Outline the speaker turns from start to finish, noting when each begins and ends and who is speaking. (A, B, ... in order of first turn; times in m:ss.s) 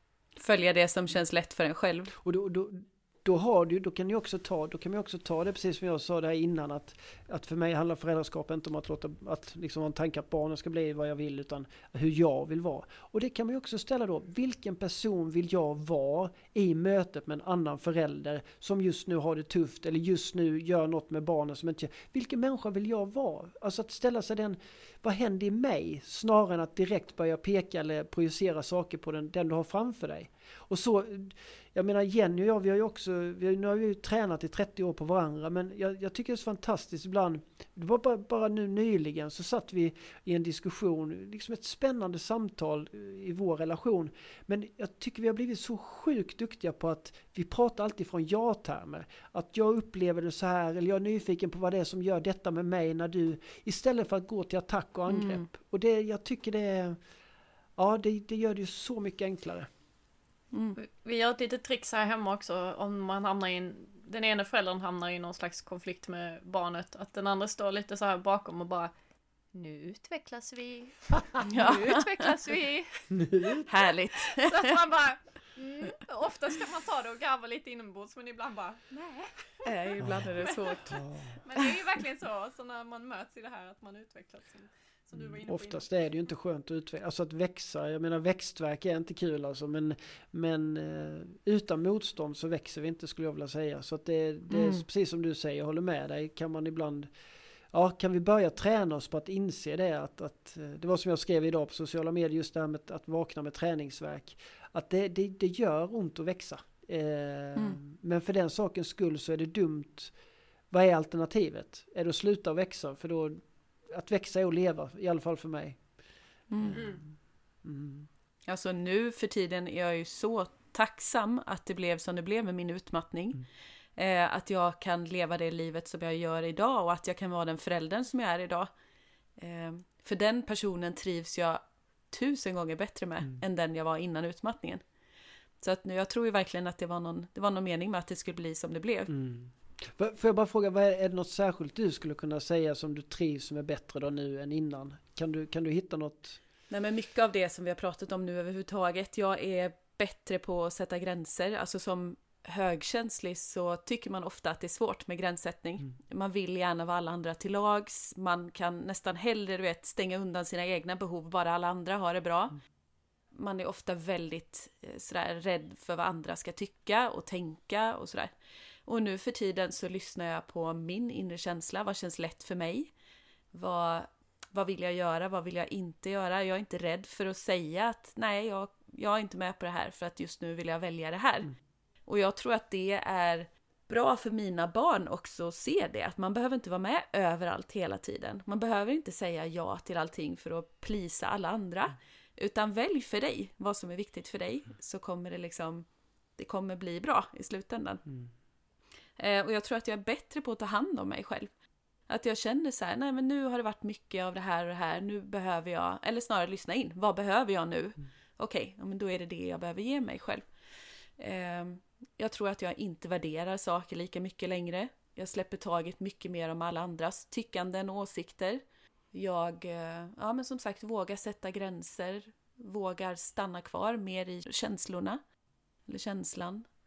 0:00.4-0:02.1 A
0:02.2-0:57.0 B
0:55.1-0:55.5 A
0:57.8-0:59.7 B
1:00.5-1:00.8 A
1:00.8-1:08.9 C
1:09.5-1:13.1 C
1:11.4-1:12.3 A
1:13.1-1:13.7 B
1:13.6-1:14.8 A
1:14.2-1:19.6 C
1:19.6-1:21.0 A
1:20.0-1:20.3 B
1:20.4-1:20.8 C
1:20.9-1:21.4 B
1:21.4-1:25.9 C
1:25.1-1:37.1 B
1:34.5-1:34.8 A
1:37.7-1:50.1 B
1:50.7-1:55.8 B
1:56.5-1:56.8 A
1:56.6-1:57.0 B
1:56.7-1:57.0 C
1:57.6-1:58.1 B
1:58.5-2:03.4 A
2:04.0-2:08.7 A
2:09.4-2:14.8 A
2:15.6-2:19.1 A
2:19.1-2:26.4 B
2:26.7-2:42.6 A
2:43.3-2:48.3 A
2:48.8-2:52.9 A
2:53.5-3:01.5 A
3:02.1-3:15.8 A
3:16.4-3:18.0 A
3:19.2-3:21.5 A
3:22.1-3:30.5 A
3:31.2-3:38.6 A
3:39.1-3:45.2 A
3:45.9-3:46.6 A